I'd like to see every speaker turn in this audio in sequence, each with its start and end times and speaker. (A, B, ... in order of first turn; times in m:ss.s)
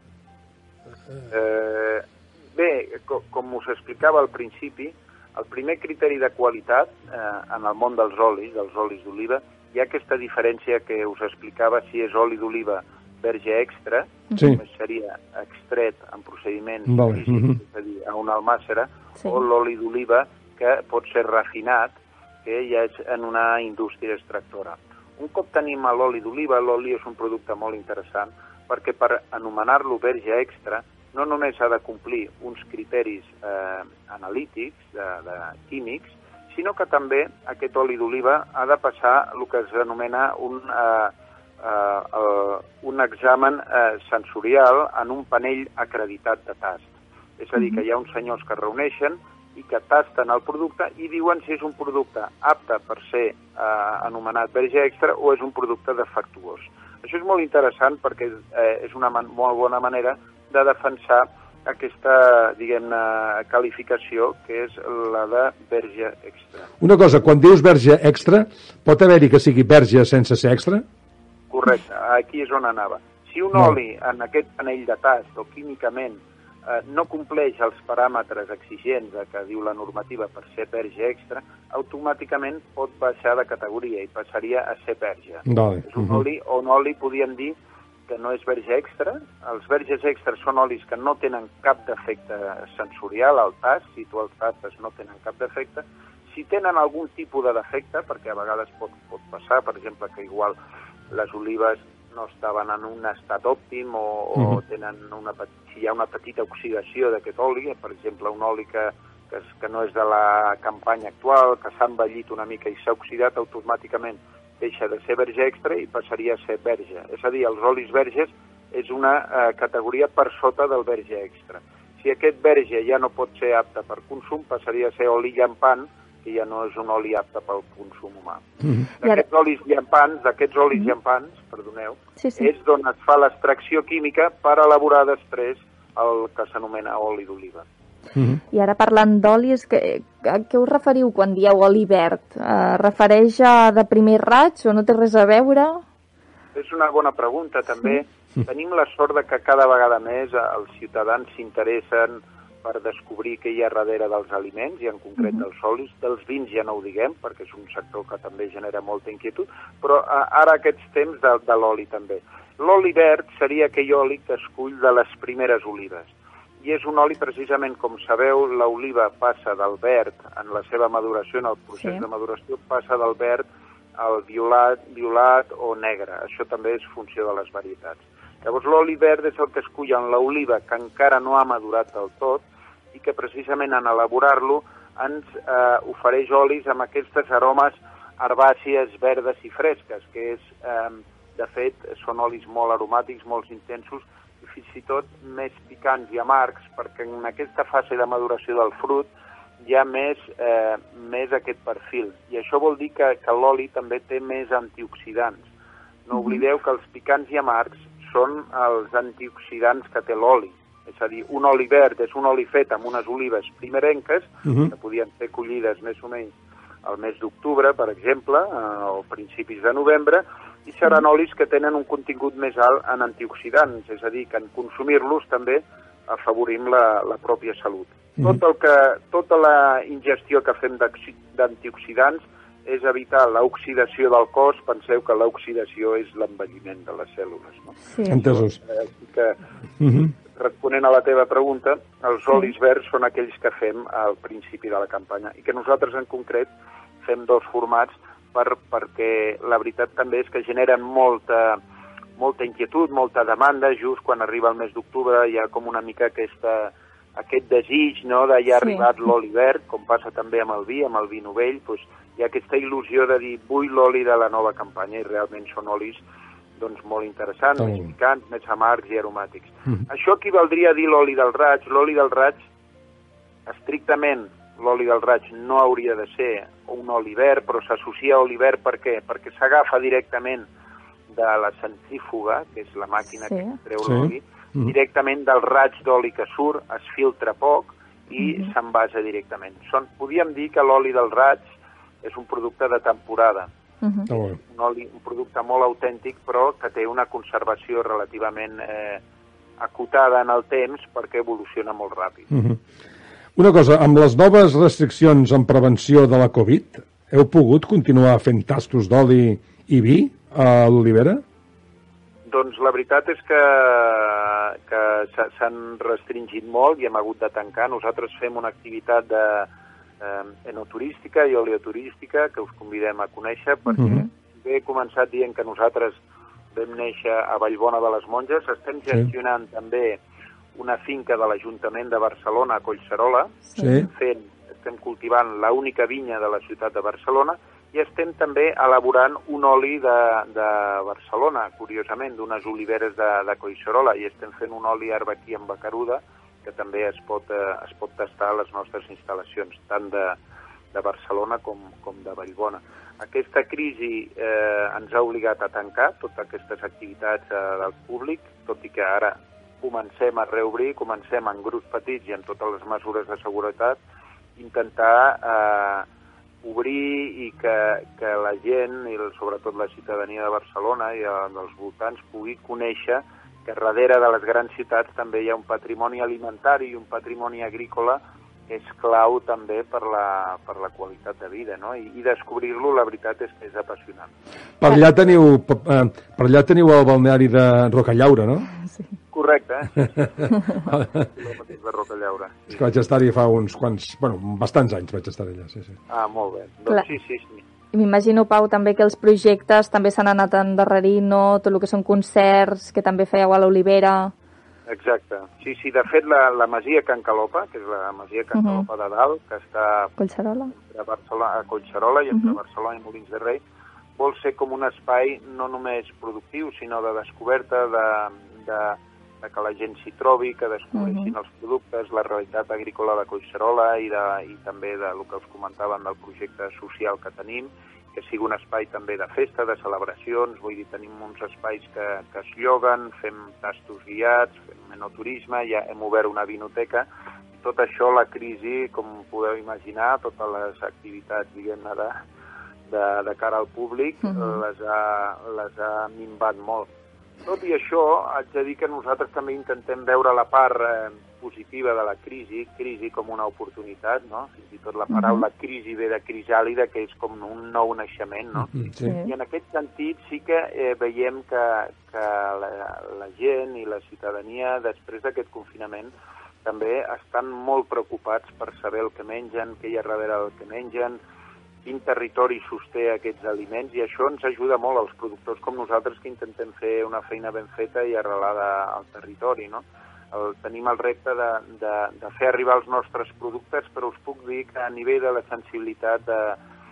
0:01.3-0:46.9 A
0:16.9-0:17.6 B
0:47.4-1:06.7 A
0:47.6-0:47.8 C
1:06.8-1:10.8 B
1:11.5-1:27.5 A
1:25.4-1:26.2 B
1:28.1-1:40.6 A
1:41.1-2:08.4 A
2:09.0-2:17.6 A
2:12.2-2:12.5 C
2:18.5-2:25.8 C
2:26.5-2:53.4 A
2:54.0-3:19.1 A
3:19.6-3:25.4 A
3:26.0-3:36.3 A
3:26.2-3:26.4 C
3:34.4-3:34.7 B
3:36.8-3:59.4 A
3:57.9-3:58.2 C
3:58.1-3:58.6 B
3:59.8-4:00.1 B
4:00.3-4:06.5 A
4:07.0-4:11.6 A
4:12.2-4:26.0 A
4:26.6-4:32.4 A
4:27.6-4:27.9 B
4:33.5-4:40.4 A
4:41.1-4:51.4 A
4:43.3-4:43.5 C
4:43.8-4:44.7 B
4:48.2-4:48.5 C
4:52.0-4:53.5 A
4:54.1-4:54.4 B
4:54.1-4:59.0 A
4:59.6-5:02.3 A
5:02.3-5:02.6 B
5:03.4-5:11.2 B
5:12.3-5:19.5 A
5:20.0-5:26.0 A
5:23.8-5:24.0 C
5:23.8-5:24.0 B
5:26.5-5:30.0 A
5:30.5-5:50.2 A
5:33.5-5:33.8 C
5:33.6-5:33.9 B
5:50.7-6:03.8 A
6:04.4-6:05.8 A
6:06.4-6:24.1 A
6:24.6-6:28.5 B
6:29.1-6:32.6 A
6:30.6-6:31.1 B
6:32.5-6:35.7 B
6:35.9-6:37.4 A
6:37.7-6:44.1 C
6:44.7-6:49.9 A
6:48.3-6:48.6 C
6:50.0-6:50.5 C
6:50.5-6:53.4 A
6:54.0-7:16.9 A
7:00.7-7:01.1 C
7:17.4-7:22.0 A
7:22.7-7:26.7 A
7:27.2-7:45.9 A
7:34.9-7:35.2 C
7:38.4-7:38.9 B
7:46.4-7:51.0 A
7:51.6-8:06.4 A